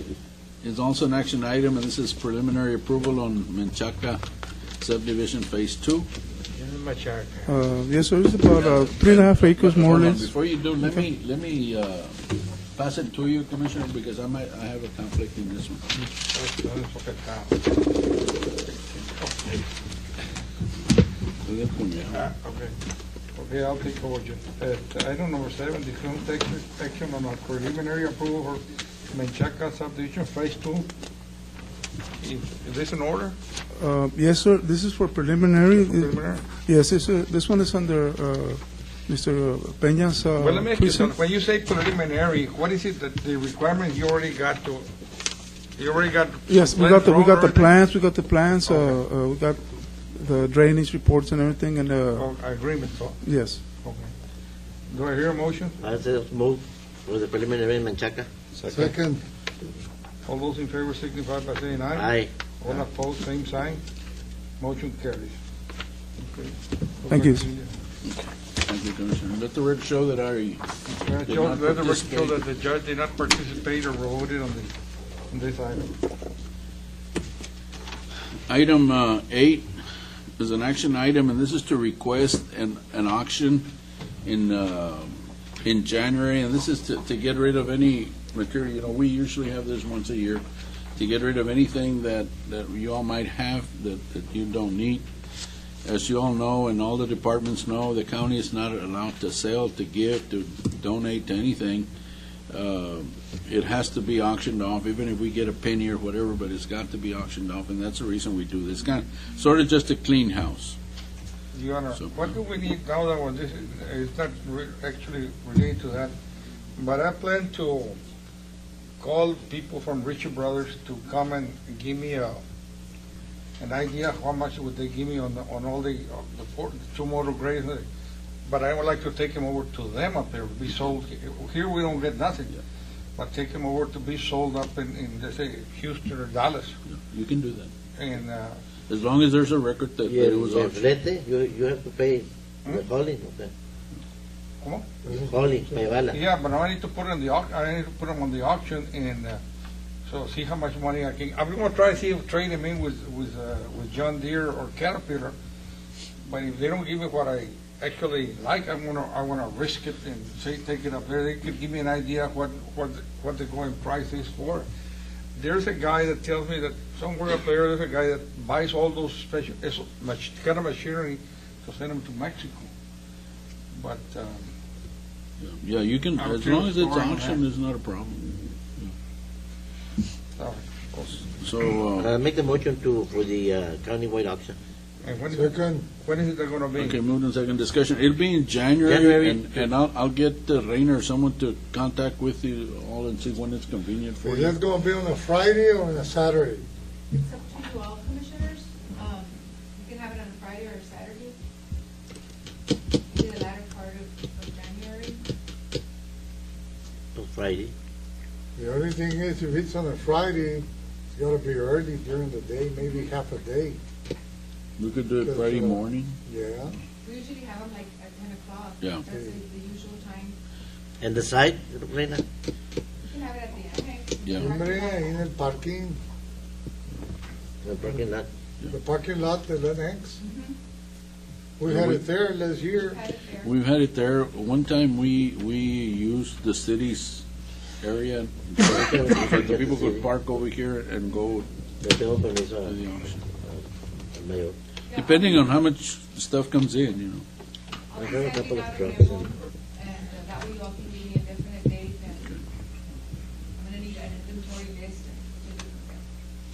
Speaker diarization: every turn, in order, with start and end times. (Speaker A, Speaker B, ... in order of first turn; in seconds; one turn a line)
Speaker A: 0.6-4.2
Speaker A: 4.8-6.1
Speaker B: 6.5-7.6
Speaker C: 7.5-10.3
Speaker A: 8.5-15.8
Speaker B: 16.1-17.7
Speaker B: 19.1-19.6
Speaker A: 21.4-22.2
Speaker B: 22.1-22.7
Speaker B: 23.4-30.9
Speaker B: 32.2-33.4
Speaker C: 33.8-41.1
Speaker B: 35.8-36.5
Speaker B: 40.4-44.9
Speaker B: 45.8-47.8
Speaker C: 46.5-52.3
Speaker B: 48.6-49.0
Speaker B: 52.1-53.2
Speaker C: 53.2-53.6
Speaker B: 53.7-54.1
Speaker B: 54.9-55.8
Speaker D: 55.8-58.3
Speaker B: 58.5-58.9
Speaker E: 58.7-59.2
Speaker B: 60.2-63.8
Speaker D: 61.9-62.3
Speaker B: 64.6-65.3
Speaker B: 66.2-67.7
Speaker C: 67.1-67.4
Speaker A: 68.1-70.7
Speaker B: 70.8-74.7
Speaker A: 71.3-72.4
Speaker B: 75.3-76.0
Speaker A: 78.5-79.7
Speaker A: 80.4-83.7
Speaker A: 84.2-90.4
Speaker A: 91.0-95.1
Speaker A: 95.8-101.9
Speaker A: 102.5-110.8
Speaker B: 111.5-116.1
Speaker A: 111.9-112.3
Speaker B: 116.8-118.0
Speaker B: 119.0-122.4
Speaker B: 123.6-127.8
Speaker B: 128.4-132.6
Speaker B: 133.2-136.8
Speaker A: 136.9-137.7
Speaker B: 138.0-138.6
Speaker A: 138.9-140.8
Speaker D: 140.0-143.5
Speaker B: 144.6-144.8
Speaker E: 145.1-145.3
Speaker D: 145.1-146.2
Speaker B: 146.1-149.4
Speaker B: 150.1-155.3
Speaker B: 156.2-164.7
Speaker B: 165.3-172.7
Speaker B: 173.7-174.5
Speaker A: 175.4-178.9
Speaker B: 176.2-177.4
Speaker B: 180.3-181.3
Speaker A: 181.4-182.1
Speaker D: 181.9-184.6
Speaker B: 185.0-187.0
Speaker E: 185.3-185.9
Speaker A: 186.8-194.6
Speaker D: 188.8-189.4
Speaker E: 194.2-196.6
Speaker F: 197.1-201.3
Speaker F: 203.1-205.2
Speaker D: 207.1-207.7
Speaker E: 208.6-213.8
Speaker A: 214.8-216.2
Speaker E: 215.2-216.8
Speaker F: 217.0-220.3
Speaker A: 218.8-219.0
Speaker E: 219.1-219.3
Speaker D: 221.0-222.2
Speaker F: 223.1-225.0
Speaker A: 224.2-224.6
Speaker E: 224.3-226.0
Speaker D: 227.6-228.3
Speaker E: 228.7-230.2
Speaker F: 230.2-230.5
Speaker E: 231.6-233.0
Speaker A: 231.7-232.0
Speaker F: 232.8-233.5
Speaker A: 233.4-237.2
Speaker A: 237.8-241.5
Speaker D: 238.6-240.1
Speaker D: 241.8-242.8
Speaker A: 242.6-243.2
Speaker D: 243.4-244.6
Speaker F: 244.9-245.4
Speaker A: 244.9-247.2
Speaker F: 247.9-252.2
Speaker D: 247.9-249.3
Speaker F: 253.6-256.0